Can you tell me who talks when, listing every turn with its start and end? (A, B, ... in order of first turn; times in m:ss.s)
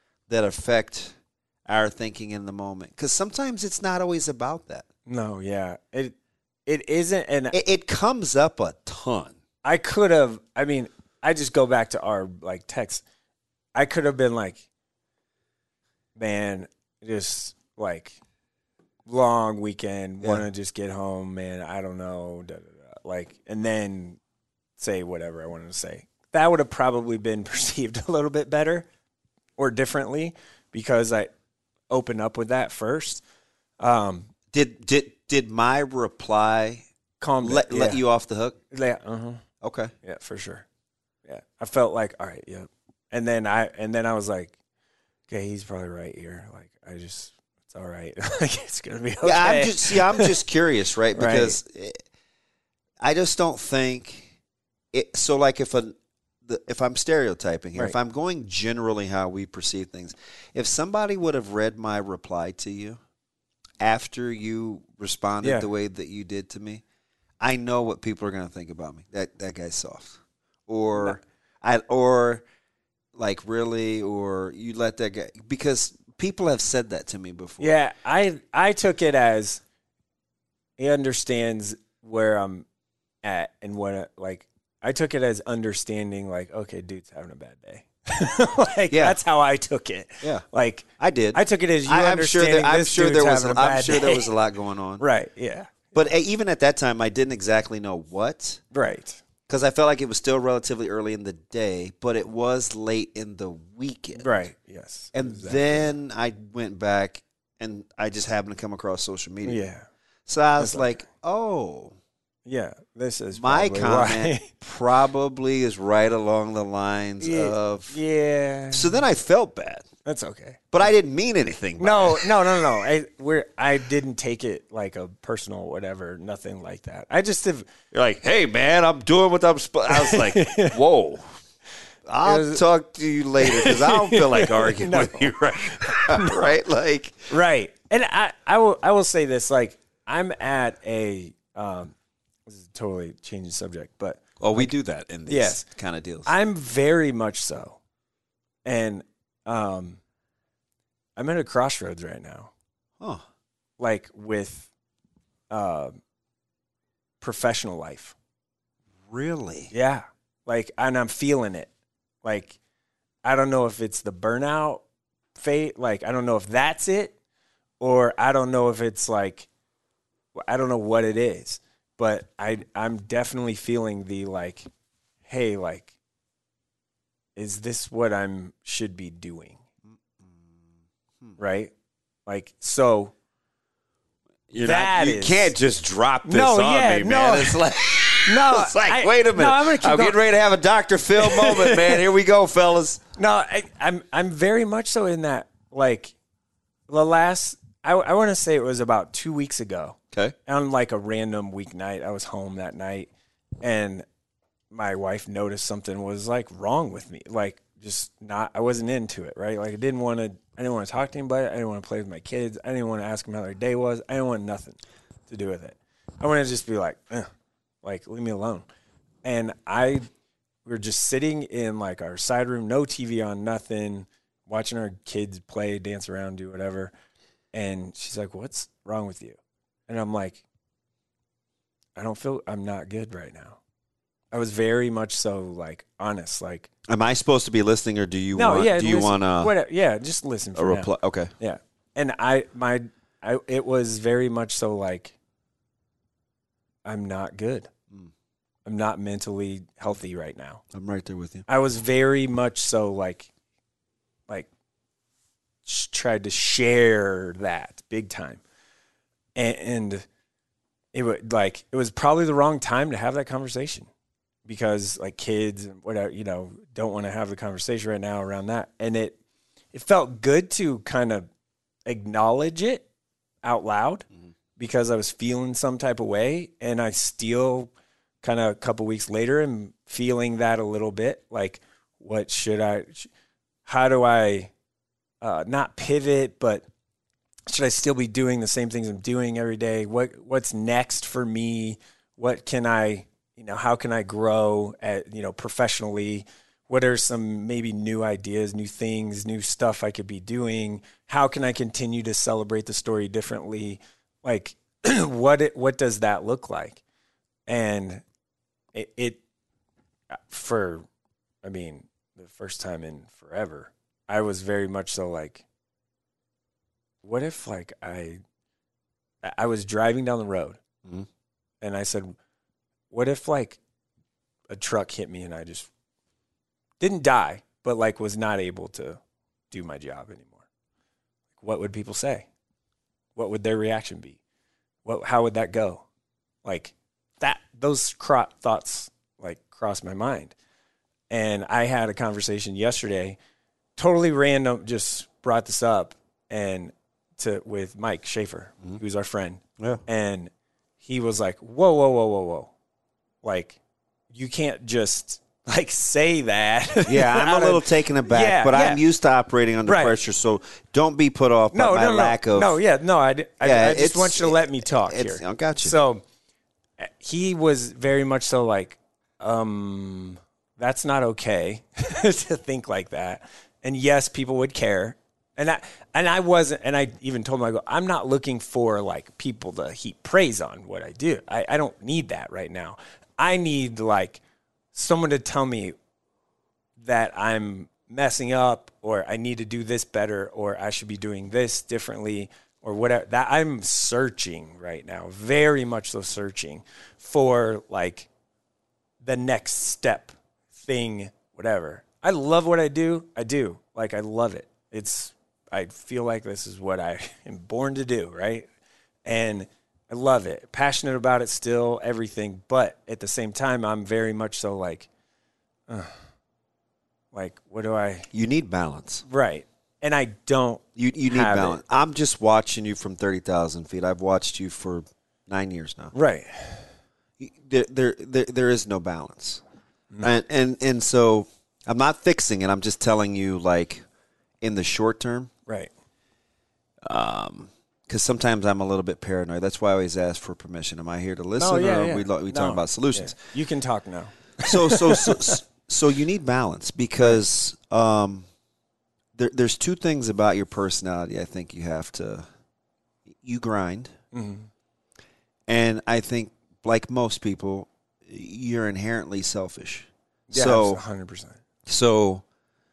0:00.3-0:01.2 A
0:01.7-0:04.9 A
0:05.1-0:06.2 B
0:06.7-0:07.6 B
0:07.5-0:09.4 A
0:09.6-0:13.0 B
0:13.8-0:14.6 B
0:16.2-0:18.2 B
0:19.1-0:24.2 B
0:20.2-0:20.5 A
0:24.8-0:28.9 B
0:29.6-0:31.3 B
0:31.9-0:33.2 B
0:33.8-0:34.3 B
0:34.5-0:36.8 A
0:37.2-0:38.0 B
0:37.4-0:38.6 A
0:38.7-0:39.4 B
0:39.6-0:39.9 A
0:40.0-0:40.6 B
0:41.2-0:44.6 B
0:45.3-0:50.4 B
0:49.2-0:52.0 A
0:51.1-0:51.6 B
0:53.0-0:54.3 A
0:54.9-1:03.0 A
1:03.8-1:06.8 A
1:05.4-1:05.7 B
1:07.4-1:12.4 A
1:11.0-1:11.2 B
1:13.2-1:17.8 A
1:17.6-1:19.6 B
1:20.8-1:22.7 B
1:23.2-1:34.3 B
1:28.9-1:29.2 A
1:31.0-1:35.1 A
1:35.0-1:36.1 B
1:35.9-1:38.6 A
1:38.7-1:39.2 B
1:39.5-1:44.5 A
1:44.2-1:46.0 B
1:45.1-1:49.7 A
1:49.4-1:49.9 B
1:50.3-1:52.0 A
1:50.6-1:51.0 B
1:52.5-1:54.5 B
1:53.4-1:58.0 A
1:57.2-1:59.0 B
1:58.7-1:59.9 A
2:00.0-2:00.8 B
2:00.7-2:02.7 A
2:01.8-2:07.7 B
2:07.9-2:11.4 A
2:09.9-2:10.8 B
2:12.1-2:17.4 A
2:12.2-2:12.6 B
2:13.4-2:16.6 B
2:17.3-2:22.0 B
2:22.5-2:24.8 B
2:24.4-2:26.3 A
2:25.3-2:25.6 B
2:26.2-2:27.8 B
2:28.6-2:30.0 B
2:31.2-2:32.5 B
2:33.0-2:33.2 A
2:33.8-2:34.7 B
2:35.5-2:36.0 B
2:37.2-2:38.2 B
2:39.1-2:39.7 A
2:39.7-2:41.7 B
2:42.2-2:42.6 B
2:43.2-2:44.8 B
2:45.4-2:47.2 B
2:47.8-2:49.5 B
2:50.3-2:54.7 B
2:55.2-2:55.9 B
2:57.4-2:59.6 B
3:00.2-3:00.6 A
3:01.4-3:01.7 B
3:02.3-3:03.1 B
3:04.5-3:13.0 A
3:04.6-3:05.6 B
3:06.2-3:07.7 B
3:08.2-3:10.2 B
3:11.2-3:12.0 B
3:13.2-3:16.2 B
3:16.9-3:23.1 B
3:23.6-3:24.1 B
3:24.7-3:37.3 B
3:37.8-3:38.7 B
3:39.2-3:40.0 B
3:40.6-3:46.9 B
3:47.5-3:50.4 B
3:52.0-3:53.6 B
3:54.3-3:56.7 B
3:56.9-3:59.6 A
3:58.3-4:05.2 B
4:00.6-4:01.3 A
4:06.8-4:07.7 B
4:08.6-4:10.6 B
4:10.7-4:11.5 A
4:11.5-4:13.3 B
4:15.6-4:18.4 B
4:19.4-4:20.1 B
4:20.9-4:23.9 B
4:24.5-4:29.2 B
4:29.7-4:31.3 B
4:31.9-4:32.9 B
4:33.4-4:34.1 B
4:34.6-4:43.1 B
4:43.6-4:44.5 B
4:45.2-4:46.7 B
4:47.5-5:06.8 B
5:07.5-5:08.0 B
5:08.7-5:09.2 B
5:10.1-5:10.9 B
5:11.4-5:15.4 B
5:17.0-5:18.2 B
5:19.2-5:20.6 B
5:21.6-5:22.2 B
5:22.9-5:23.6 B
5:24.5-5:25.7 B
5:26.8-5:29.0 B
5:29.5-5:30.4 B
5:31.4-5:32.3 B
5:33.2-5:34.2 B
5:34.8-5:35.8 B
5:36.4-5:40.4 B
5:41.1-5:43.2 B
5:43.8-5:50.3 B
5:50.8-5:52.5 B
5:53.2-5:53.6 B
5:54.1-5:58.8 B
5:56.8-6:02.6 A
5:59.6-6:00.0 B
6:01.5-6:06.0 B
6:03.4-6:05.8 A
6:06.8-6:24.2 B
6:24.7-6:25.8 B
6:26.8-6:38.1 B
6:39.0-6:48.5 B
6:49.0-6:54.9 B
6:55.7-6:56.1 B
6:57.1-6:58.1 B
6:58.1-6:59.0 A
6:59.0-7:01.6 B
7:00.8-7:05.9 A
7:05.9-7:06.8 B
7:07.2-7:09.4 A
7:10.0-7:13.8 A
7:14.4-7:15.3 A
7:15.5-7:15.7 B
7:16.9-7:23.2 A
7:21.4-7:25.4 B
7:24.4-7:28.3 A
7:29.2-7:32.3 A
7:33.2-7:33.9 A
7:34.1-7:34.5 B
7:35.5-7:40.8 A
7:40.3-7:41.4 B
7:41.7-7:42.2 A